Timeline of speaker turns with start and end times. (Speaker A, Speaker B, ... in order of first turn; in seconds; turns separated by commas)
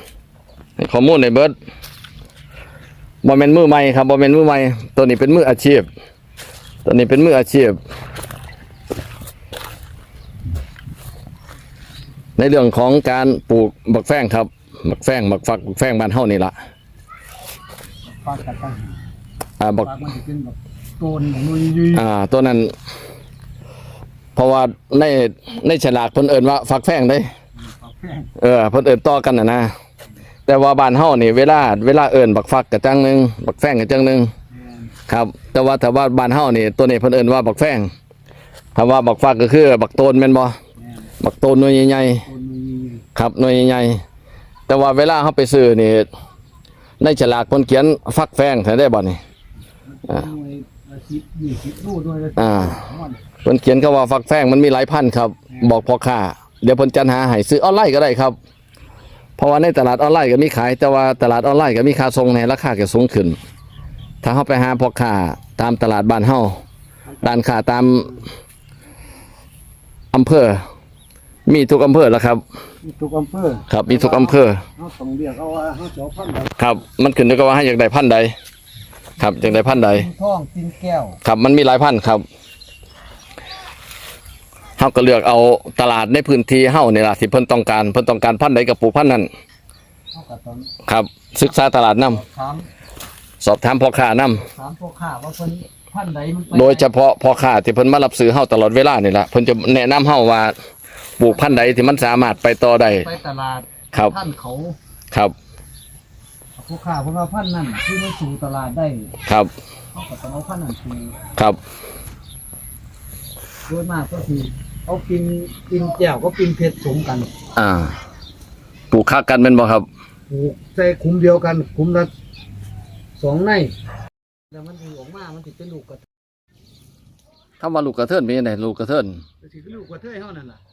Speaker A: 0.8-1.5, Speaker A: 3.2-5.9, Speaker A: 6.8-7.8, Speaker A: 12.4-16.5, Speaker B: 18.1-19.0, Speaker A: 19.6-19.9, Speaker B: 19.8-22.1, Speaker A: 21.9-22.7, Speaker A: 24.4-27.3, Speaker B: 27.6-28.3, Speaker A: 28.4-29.7, Speaker A: 30.5-34.3, Speaker B: 34.5-34.9, Speaker A: 35.1-37.9, Speaker A: 38.7-40.6, Speaker B: 40.8-41.1, Speaker A: 41.2-42.2, Speaker B: 42.2-43.0, Speaker A: 43.1-44.0, Speaker A: 44.7-46.1, Speaker A: 47.0-49.2, Speaker B: 49.9-53.2, Speaker A: 52.4-52.8, Speaker A: 53.4-58.4, Speaker A: 59.4-63.4, Speaker A: 64.2-66.6, Speaker B: 67.1-67.4, Speaker A: 67.2-68.1, Speaker A: 70.1-70.6, Speaker A: 71.5-72.4, Speaker B: 72.8-76.5, Speaker A: 73.7-74.6, Speaker A: 76.6-78.3, Speaker A: 79.2-80.1, Speaker B: 79.2-81.2, Speaker A: 81.2-82.2, Speaker A: 84.8-89.3, Speaker B: 90.1-90.7, Speaker A: 90.9-92.2, Speaker B: 91.4-92.7, Speaker A: 93.4-94.4, Speaker B: 94.3-96.9, Speaker A: 96.5-100.5, Speaker A: 101.2-103.0, Speaker B: 101.2-102.3, Speaker B: 103.0-104.8, Speaker B: 106.6-109.1, Speaker A: 109.2-109.5, Speaker B: 109.9-111.2, Speaker B: 113.7-117.3, Speaker A: 117.5-118.0, Speaker A: 118.9-119.8, Speaker B: 120.3-122.1, Speaker B: 123.2-123.7, Speaker B: 124.5-126.0, Speaker A: 127.6-129.2, Speaker B: 129.4-130.6